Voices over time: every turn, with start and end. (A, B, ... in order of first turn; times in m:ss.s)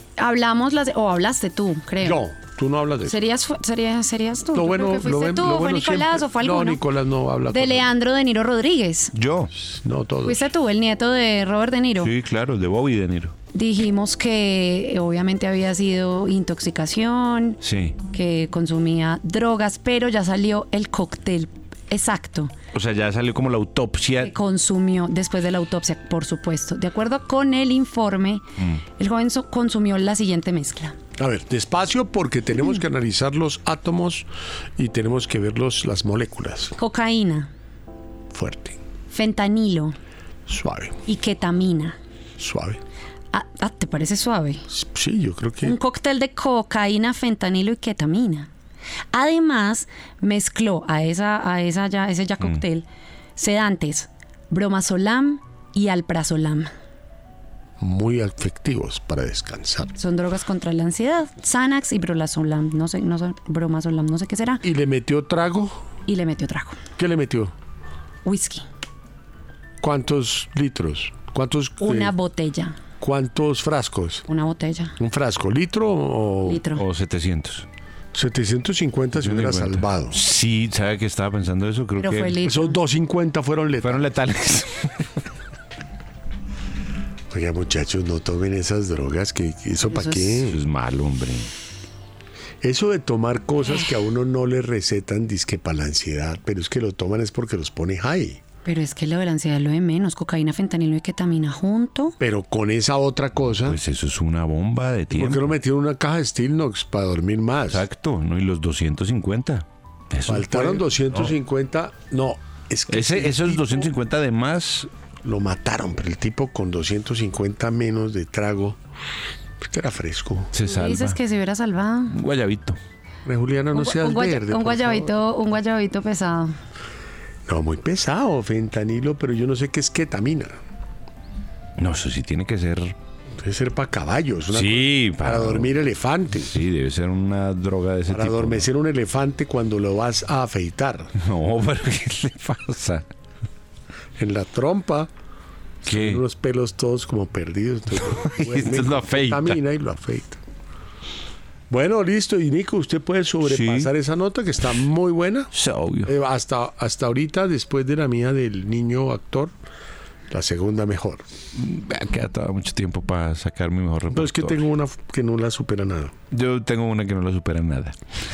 0:00.2-0:02.2 A
0:02.0-0:03.1 B
0:03.0-0:06.8 A
0:04.5-0:07.9 B
0:07.5-0:09.1 A
0:09.1-0:09.5 C
0:09.7-0:10.5 B
0:10.2-0:12.1 A
0:12.0-0:13.3 C
0:13.5-0:17.6 A
0:17.6-0:18.0 C
0:18.1-0:22.5 A
0:22.7-0:24.3 C
0:24.2-0:28.4 A
0:29.0-0:31.0 A
0:31.2-0:36.7 B
0:36.8-0:37.5 A
0:38.3-0:38.8 B
0:39.1-0:40.0 A
0:40.5-0:41.0 B
0:41.0-0:42.0 A
0:42.4-0:42.8 B
0:43.3-0:44.6 A
0:44.7-0:45.8 B
0:45.6-0:48.5 A
0:49.1-0:52.8 A
0:53.4-0:56.7 A
0:57.8-0:59.9 B
1:00.0-1:04.6 A
1:04.6-1:05.8 B
1:06.1-1:06.8 A
1:07.0-1:07.5 B
1:08.2-1:08.6 A
1:09.8-1:12.1 B
1:11.8-1:12.8 A
1:13.0-1:14.2 B
1:14.3-1:15.0 A
1:15.0-1:16.6 B
1:16.4-1:16.8 A
1:16.7-1:17.7 C
1:18.1-1:20.2 B
1:19.2-1:22.4 C
1:22.0-1:22.8 A
1:22.4-1:24.0 B
1:23.8-1:25.0 C
1:27.3-1:30.6 B
1:29.9-1:30.4 A
1:30.4-1:31.5 C
1:32.6-1:38.4 B
1:38.6-1:42.2 A
1:42.2-1:43.8 B
1:43.6-1:45.5 C
1:45.1-1:47.8 B
1:47.7-1:50.8 C
1:50.2-1:53.9 B
1:52.9-1:54.9 C
1:55.2-1:58.8 B
1:59.6-2:00.5 B
2:00.5-2:01.2 C
2:00.6-2:02.2 A
2:02.1-2:02.8 C
2:03.2-2:05.1 B
2:03.7-2:06.5 A
2:07.5-2:10.6 B
2:11.8-2:12.9 C
2:13.4-2:16.5 B
2:14.5-2:15.7 C
2:16.4-2:18.7 C
2:18.1-2:21.1 B
2:21.2-2:23.0 C
2:24.2-2:25.1 B
2:25.8-2:30.4 B
2:25.8-2:26.2 C
2:28.0-2:29.6 C
2:31.7-2:35.5 B
2:33.4-2:33.9 C
2:35.5-2:36.1 C
2:36.0-2:39.5 B
2:40.3-2:41.2 B
2:41.5-2:44.6 C
2:44.1-2:46.1 B
2:46.3-2:48.0 C